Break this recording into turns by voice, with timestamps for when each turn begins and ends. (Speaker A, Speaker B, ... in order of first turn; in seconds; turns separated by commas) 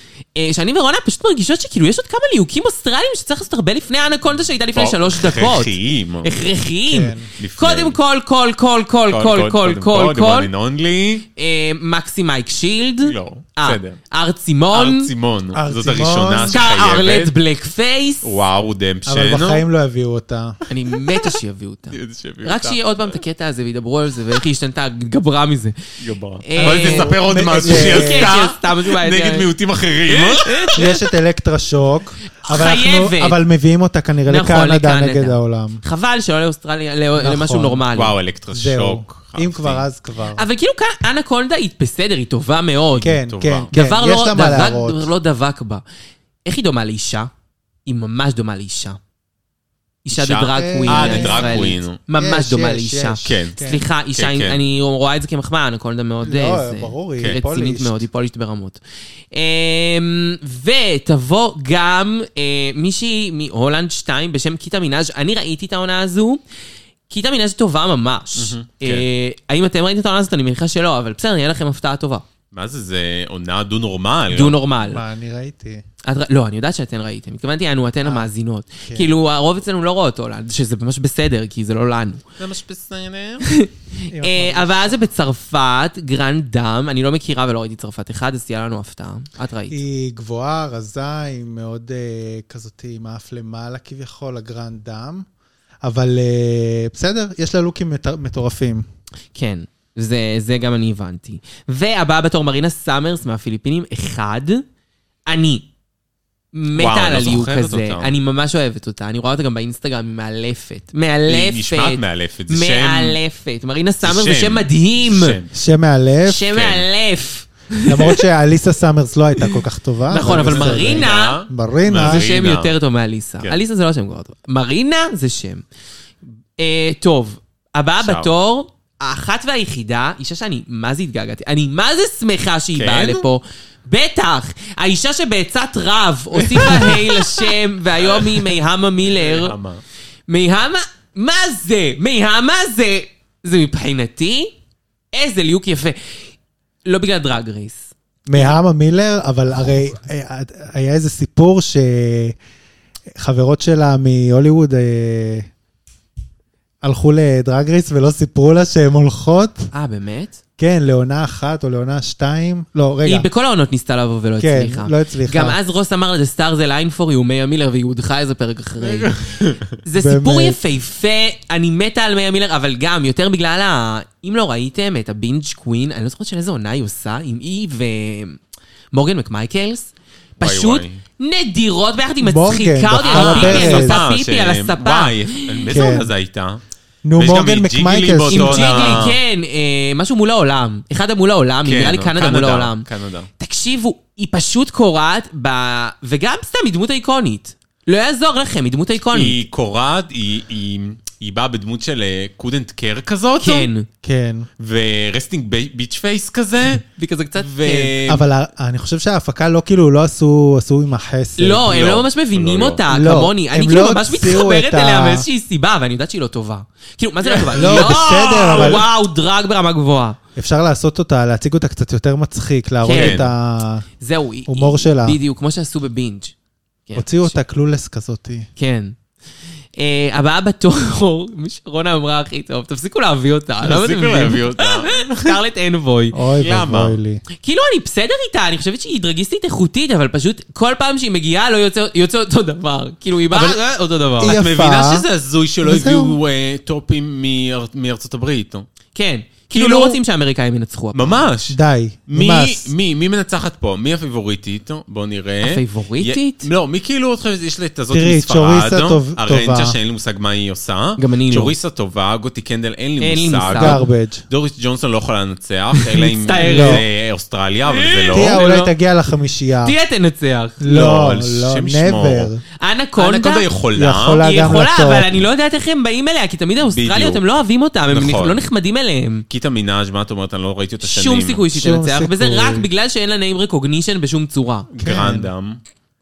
Speaker A: 0.3-10.5, Speaker B: 4.7-6.3, Speaker C: 6.9-7.3, Speaker B: 7.4-8.0, Speaker B: 9.1-11.3, Speaker A: 11.3-15.1, Speaker B: 13.0-14.0, Speaker B: 14.7-17.3, Speaker C: 15.5-16.6, Speaker A: 16.4-18.4, Speaker B: 18.2-19.6, Speaker C: 19.1-20.6, Speaker A: 20.7-25.8, Speaker B: 21.9-22.8, Speaker B: 26.0-30.8, Speaker A: 26.4-29.5, Speaker C: 26.6-28.3, Speaker A: 30.1-30.9, Speaker C: 30.8-35.8, Speaker A: 32.5-33.4, Speaker A: 34.3-38.1, Speaker C: 37.2-37.9, Speaker B: 37.9-39.8, Speaker C: 38.5-40.4, Speaker A: 40.3-43.1, Speaker B: 43.0-43.7, Speaker C: 43.0-45.1, Speaker A: 43.7-45.8, Speaker A: 46.4-47.3, Speaker A: 47.9-49.0, Speaker A: 50.0-58.8, Speaker B: 50.1-52.0, Speaker C: 50.5-53.8, Speaker B: 53.2-53.6, Speaker B: 54.1-54.6, Speaker C: 56.2-58.0, Speaker A: 59.3-66.4, Speaker A: 67.1-72.2, Speaker B: 68.4-69.0, Speaker B: 72.5-74.6, Speaker A: 74.3-75.0, Speaker C: 74.8-75.8, Speaker A: 76.0-82.2, Speaker B: 82.4-83.5, Speaker A: 83.4-89.8, Speaker C: 84.1-85.1, Speaker C: 89.7-95.3, Speaker C: 95.8-98.8, Speaker A: 99.3-104.6, Speaker A: 105.3-105.7, Speaker A: 106.5-115.4, Speaker B: 106.8-108.1, Speaker B: 111.3-113.2, Speaker B: 114.0-115.5, Speaker C: 115.5-116.5, Speaker A: 116.2-118.2, Speaker B: 116.5-116.9, Speaker C: 117.9-122.3, Speaker A: 120.1-121.4, Speaker B: 120.1-122.7, Speaker A: 122.0-125.6, Speaker A: 126.6-139.6, Speaker B: 128.0-128.3, Speaker B: 132.8-133.2, Speaker B: 136.4-138.6, Speaker B: 139.1-139.8, Speaker A: 140.3-144.5, Speaker A: 145.1-146.1, Speaker A: 146.8-148.5, Speaker C: 148.3-152.4, Speaker C: 153.2-155.5, Speaker C: 156.8-159.7, Speaker A: 159.7-160.4, Speaker C: 160.6-163.3, Speaker A: 163.0-178.4, Speaker C: 164.4-165.6, Speaker B: 168.8-169.8, Speaker C: 169.9-170.6, Speaker A: 178.9-185.7, Speaker B: 180.4-181.0, Speaker C: 182.2-184.0, Speaker B: 183.1-186.6, Speaker C: 185.7-186.1, Speaker C: 187.0-189.0, Speaker B: 187.2-189.2, Speaker A: 188.3-192.9, Speaker B: 191.6-193.3, Speaker A: 193.4-199.4, Speaker B: 199.1-203.7, Speaker A: 203.4-203.9, Speaker C: 204.0-204.5, Speaker B: 204.6-206.8, Speaker A: 206.9-207.9, Speaker B: 207.4-208.2, Speaker C: 208.1-211.7, Speaker A: 211.4-220.2, Speaker B: 211.6-212.8, Speaker C: 212.9-215.2, Speaker B: 217.2-218.8, Speaker C: 217.5-218.8, Speaker C: 220.4-223.9, Speaker A: 222.8-223.2, Speaker B: 222.9-223.3, Speaker A: 224.0-226.3, Speaker C: 224.5-225.2, Speaker A: 226.9-227.4, Speaker C: 226.9-228.5, Speaker A: 228.6-228.9, Speaker A: 229.8-236.2, Speaker B: 233.6-235.4, Speaker C: 236.1-237.2, Speaker B: 236.4-237.0, Speaker A: 237.4-244.4, Speaker C: 243.3-243.6, Speaker C: 244.2-245.1, Speaker B: 244.2-248.7, Speaker C: 245.6-246.2, Speaker A: 248.9-251.2, Speaker C: 249.5-250.0, Speaker B: 250.9-251.6, Speaker C: 251.5-252.7, Speaker B: 252.1-268.4, Speaker A: 255.4-256.5, Speaker C: 257.9-259.8, Speaker A: 261.0-261.5, Speaker A: 263.0-263.8, Speaker C: 263.5-264.2, Speaker A: 265.8-266.9, Speaker C: 266.4-266.9, Speaker A: 267.7-268.7, Speaker C: 268.1-269.8, Speaker A: 269.6-270.6, Speaker C: 270.6-272.4, Speaker B: 270.7-272.3, Speaker A: 272.6-273.5, Speaker B: 273.0-274.2, Speaker C: 273.7-275.1, Speaker A: 274.2-279.2, Speaker B: 276.6-277.2, Speaker B: 277.9-278.4, Speaker B: 279.3-281.4, Speaker A: 280.8-284.7, Speaker C: 281.5-282.7, Speaker B: 284.7-285.6, Speaker C: 284.8-285.3